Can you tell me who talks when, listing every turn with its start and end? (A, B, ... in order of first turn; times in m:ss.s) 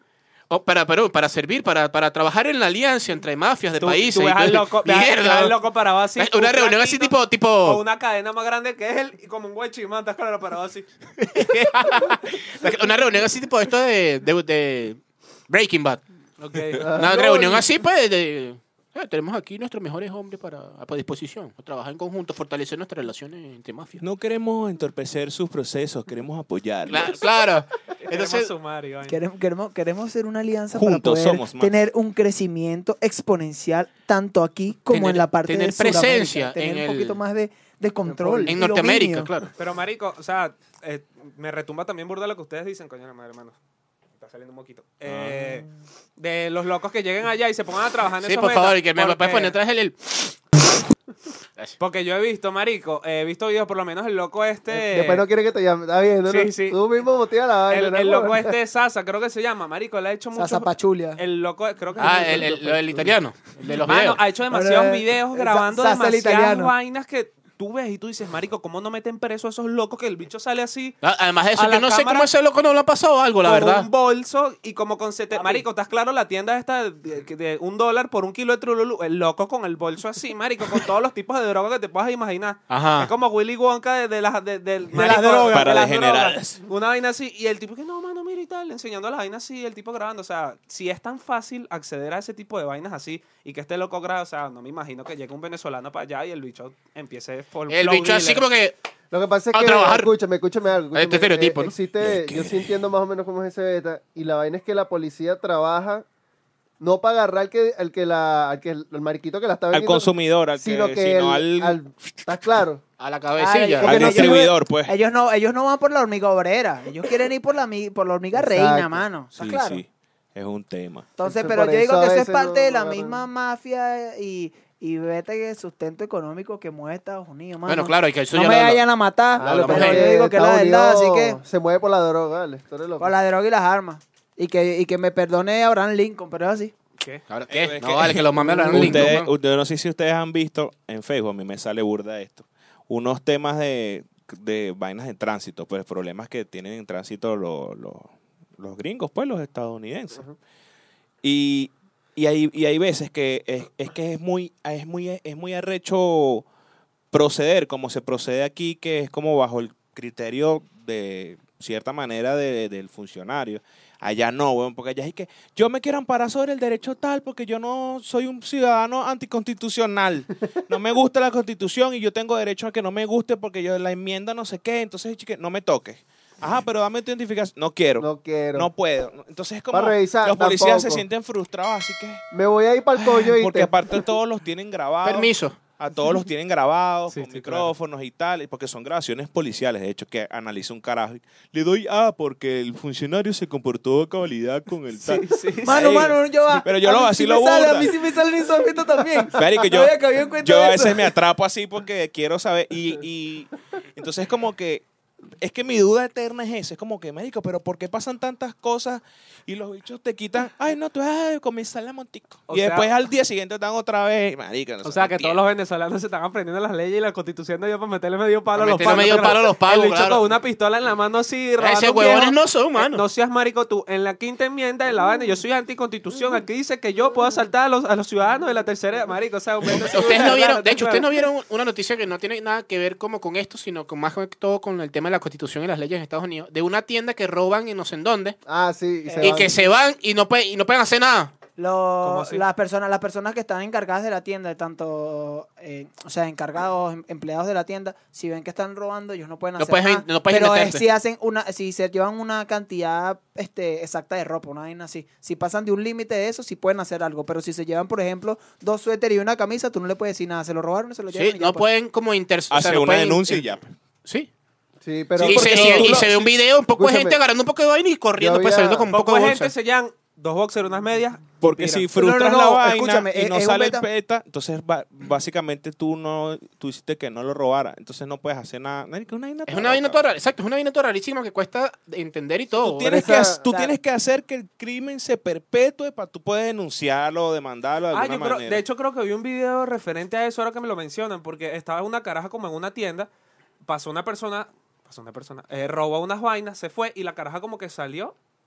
0:00.5-0:05.6 A
0:03.8-0:10.9 B
0:06.2-0:07.8 A
0:11.2-0:16.0 A
0:16.4-0:17.6 B
0:16.8-0:17.1 C
0:16.9-0:24.0 A
0:24.0-0:27.2 D
0:26.9-0:28.5 A
0:28.0-0:29.2 B
0:29.0-0:39.3 E
0:30.7-0:31.8 D
0:34.9-0:37.2 A
0:38.1-0:38.5 B
0:38.5-0:39.5 A
0:39.6-0:43.6 B
0:44.2-0:45.6 B
0:45.1-0:45.6 D
0:46.2-0:49.5 B
0:48.2-0:50.3 A
0:51.8-0:55.2 B
0:54.7-0:58.6 C
0:56.3-0:56.8 B
0:57.7-1:03.1 B
1:00.3-1:01.2 E
1:02.0-1:04.2 A
1:03.8-1:11.0 B
1:04.5-1:06.7 E
1:11.0-1:13.9 A
1:11.6-1:12.3 B
1:13.4-1:38.4 B
1:15.3-1:15.6 E
1:22.7-1:23.1 A
1:24.9-1:26.0 E
1:25.5-1:26.6 D
1:37.7-1:38.7 A
1:39.1-1:46.0 C
1:39.5-1:40.1 A
1:40.9-1:41.7 A
1:42.0-1:42.7 D
1:46.8-1:52.8 C
1:49.7-1:52.0 D
1:53.0-1:54.4 A
1:53.4-1:59.8 E
1:53.8-1:54.9 D
1:58.3-1:59.0 C
1:59.3-2:01.1 D
2:01.2-2:11.4 E
2:01.2-2:03.2 C
2:07.6-2:08.8 A
2:09.4-2:13.1 C
2:09.4-2:10.1 A
2:13.0-2:16.7 E
2:17.0-2:17.2 B
2:17.3-2:19.3 A
2:17.5-2:30.3 D
2:18.4-2:19.1 C
2:31.2-2:36.4 D
2:37.1-3:02.2 D
2:58.0-2:58.7 C
2:59.7-3:01.0 C
3:02.3-3:04.0 C
3:03.0-3:18.0 D
3:05.0-3:05.6 A
3:07.1-3:07.7 B
3:15.0-3:15.9 B
3:15.6-3:21.1 E
3:19.3-3:24.8 D
3:25.4-3:35.4 D
3:32.5-3:32.9 B
3:34.8-3:51.2 B
3:38.5-3:40.2 A
3:41.6-3:43.0 A
3:49.9-3:58.4 A
3:58.4-3:59.6 C
3:59.0-3:59.5 E
3:59.2-4:01.3 A
4:01.6-4:21.6 E
4:02.0-4:02.4 B
4:09.6-4:10.8 A
4:21.1-4:23.5 A
4:22.5-4:23.7 D
4:24.0-4:24.3 A
4:24.8-4:26.1 C
4:25.2-4:26.4 D
4:25.2-4:29.5 A
4:26.7-4:27.2 C
4:28.2-4:28.9 C
4:28.9-4:31.9 B
4:31.4-4:40.0 D
4:31.9-4:33.9 E
4:39.5-4:43.1 A
4:42.5-4:48.6 D
4:42.9-4:43.7 C
4:47.9-4:53.1 B
4:53.6-4:58.1 B